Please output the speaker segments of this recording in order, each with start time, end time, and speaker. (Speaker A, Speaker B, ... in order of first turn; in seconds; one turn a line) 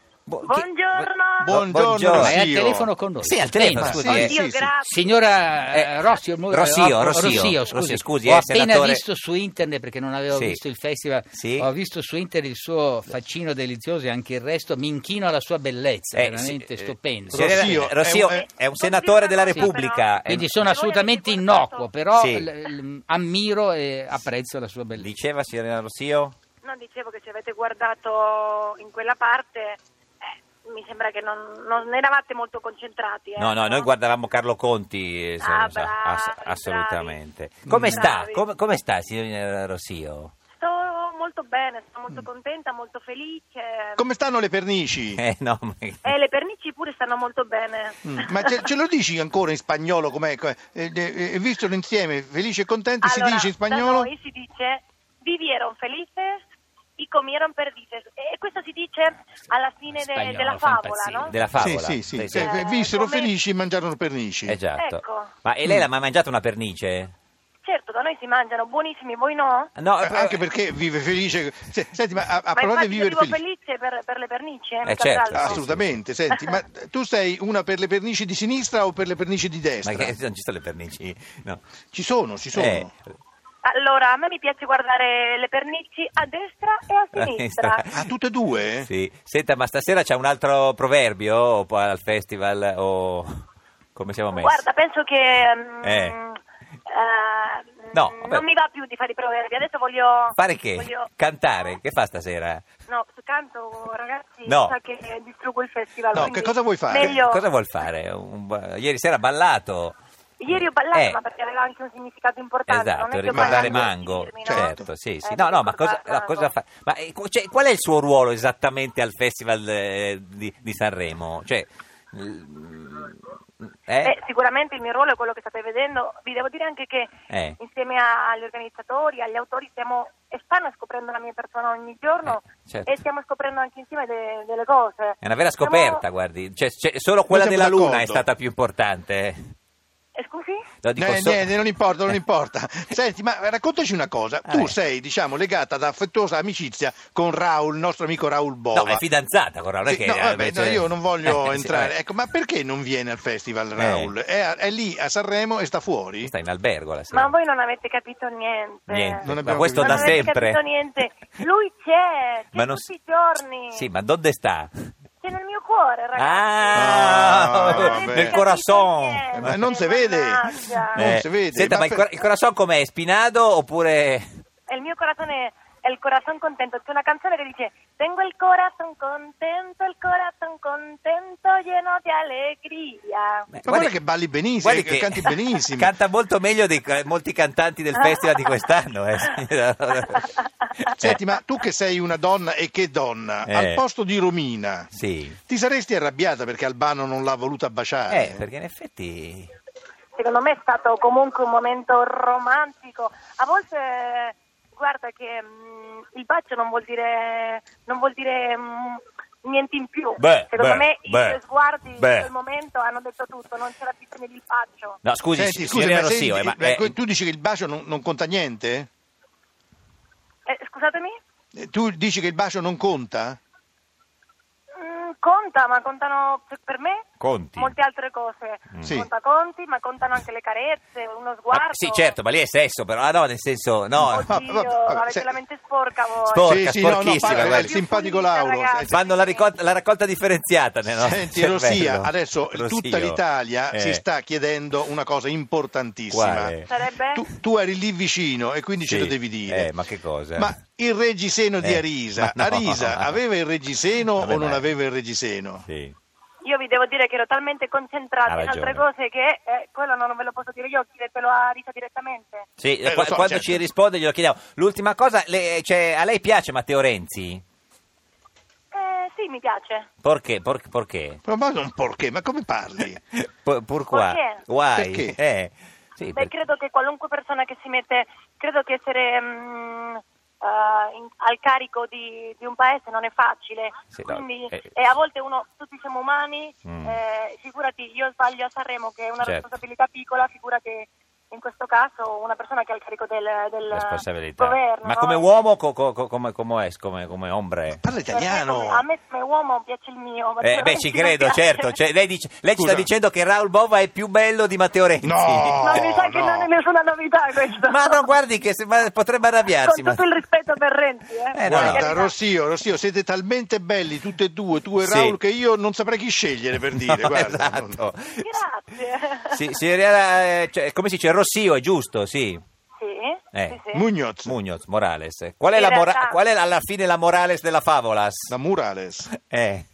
Speaker A: 0.3-2.4
Speaker B: 0.4-1.6
Speaker C: 1.4-2.9
Speaker D: 2.1-4.2
Speaker A: 3.2-4.3
Speaker C: 3.8-4.7
Speaker B: 4.0-5.1
Speaker D: 4.8-17.7
Speaker A: 5.7-9.0
Speaker A: 10.3-10.6
Speaker A: 11.3-11.7
Speaker A: 16.1-20.5
Speaker C: 17.3-18.4
Speaker B: 18.2-21.9
Speaker D: 20.2-25.1
Speaker A: 22.1-22.5
Speaker A: 24.9-26.3
Speaker B: 26.6-29.8
Speaker B: 30.6-33.9
Speaker A: 33.4-40.3
Speaker B: 35.4-37.2
Speaker C: 37.7-38.0
Speaker B: 37.9-38.4
Speaker B: 40.6-44.0
Speaker C: 44.0-45.2
Speaker A: 45.1-46.1
Speaker B: 46.0-48.7
Speaker C: 48.0-54.1
Speaker B: 53.0-56.4
Speaker B: 57.0-61.3
Speaker D: 60.1-61.5
Speaker A: 61.2-62.6
Speaker C: 61.6-64.6
Speaker B: 62.3-63.3
Speaker A: 64.5-67.1
Speaker B: 64.8-65.3
Speaker B: 67.6-69.7
Speaker A: 69.8-70.4
Speaker C: 70.0-73.4
Speaker B: 72.5-75.6
Speaker A: 74.8-75.9
Speaker C: 75.3-80.1
Speaker B: 76.3-76.6
Speaker A: 79.8-81.6
Speaker C: 81.9-82.9
Speaker A: 82.5-82.9
Speaker B: 83.6-87.8
Speaker A: 87.1-87.9
Speaker C: 87.9-88.9
Speaker A: 88.8-94.6
Speaker B: 94.3-101.1
Speaker A: 95.8-96.2
Speaker A: 97.9-98.4
Speaker A: 100.3-102.6
Speaker B: 102.9-107.4
Speaker A: 104.5-104.8
Speaker C: 106.1-107.2
Speaker A: 106.9-111.2
Speaker B: 110.4-116.5
Speaker A: 112.7-123.2
Speaker C: 113.3-113.9
Speaker C: 114.4-114.8
Speaker A: 123.8-124.1
Speaker B: 124.0-136.0
Speaker A: 127.3-127.6
Speaker A: 132.2-132.9
Speaker A: 135.2-139.5
Speaker C: 137.3-138.3
Speaker B: 140.2-140.6
Speaker A: 140.8-141.5
Speaker C: 141.0-149.0
Speaker A: 144.5-144.7
Speaker A: 148.7-151.9
Speaker C: 149.8-156.3
Speaker A: 153.8-154.1
Speaker A: 156.2-157.3
Speaker B: 157.1-163.8
Speaker A: 158.9-160.6
Speaker C: 159.2-160.3
Speaker A: 162.5-162.8
Speaker A: 163.7-164.7
Speaker B: 165.2-171.0
Speaker A: 166.2-169.6
Speaker C: 166.7-168.4
Speaker C: 169.3-172.1
Speaker A: 170.9-174.2
Speaker B: 174.7-183.5
Speaker A: 183.5-183.9
Speaker C: 183.6-185.9
Speaker A: 184.6-190.3
Speaker B: 188.0-188.5
Speaker B: 190.2-190.7
Speaker A: 190.8-191.2
Speaker C: 191.0-194.9
Speaker A: 193.4-193.8
Speaker A: 194.9-195.4
Speaker C: 195.5-198.4
Speaker A: 198.1-199.5
Speaker B: 200.2-215.0
Speaker A: 210.2-211.4
Speaker A: 212.0-212.3
Speaker A: 215.0-216.9
Speaker C: 215.3-218.9
Speaker B: 220.5-221.1
Speaker C: 221.5-223.4
Speaker B: 224.8-227.0
Speaker A: 227.2-227.7
Speaker B: 227.6-232.2
Speaker A: 231.5-234.3
Speaker B: 234.0-239.5
Speaker C: 234.1-235.4
Speaker A: 236.3-237.8
Speaker C: 236.4-238.9
Speaker A: 238.9-244.0
Speaker C: 240.9-246.6
Speaker A: 246.1-246.7
Speaker B: 246.6-247.3
Speaker C: 247.1-249.7
Speaker A: 248.8-250.5
Speaker C: 250.4-255.6
Speaker A: 251.6-253.2
Speaker A: 254.1-254.7
Speaker A: 255.7-255.9
Speaker B: 256.4-262.4
Speaker A: 258.3-258.8
Speaker A: 262.6-267.4
Speaker C: 262.8-263.6
Speaker B: 268.7-269.9
Speaker A: 270.0-271.2
Speaker C: 271.2-273.0
Speaker A: 273.1-276.3
Speaker B: 273.9-274.4
Speaker C: 274.7-275.2
Speaker B: 276.1-295.3
Speaker A: 283.9-284.7
Speaker A: 286.6-287.0
Speaker A: 293.7-297.8
Speaker C: 297.8-298.8
Speaker B: 298.1-301.8
Speaker A: 300.4-305.9
Speaker C: 302.6-302.9
Speaker C: 305.0-306.5
Speaker B: 305.6-308.1
Speaker A: 307.6-310.0
Speaker B: 309.6-312.1
Speaker A: 311.3-311.9
Speaker C: 311.5-317.8
Speaker A: 314.8-315.1
Speaker A: 316.7-318.2
Speaker B: 318.2-319.4
Speaker A: 319.3-322.4
Speaker B: 322.8-323.8
Speaker C: 323.7-324.3
Speaker A: 324.2-328.3
Speaker B: 325.5-326.2
Speaker C: 328.3-329.1
Speaker A: 329.1-329.6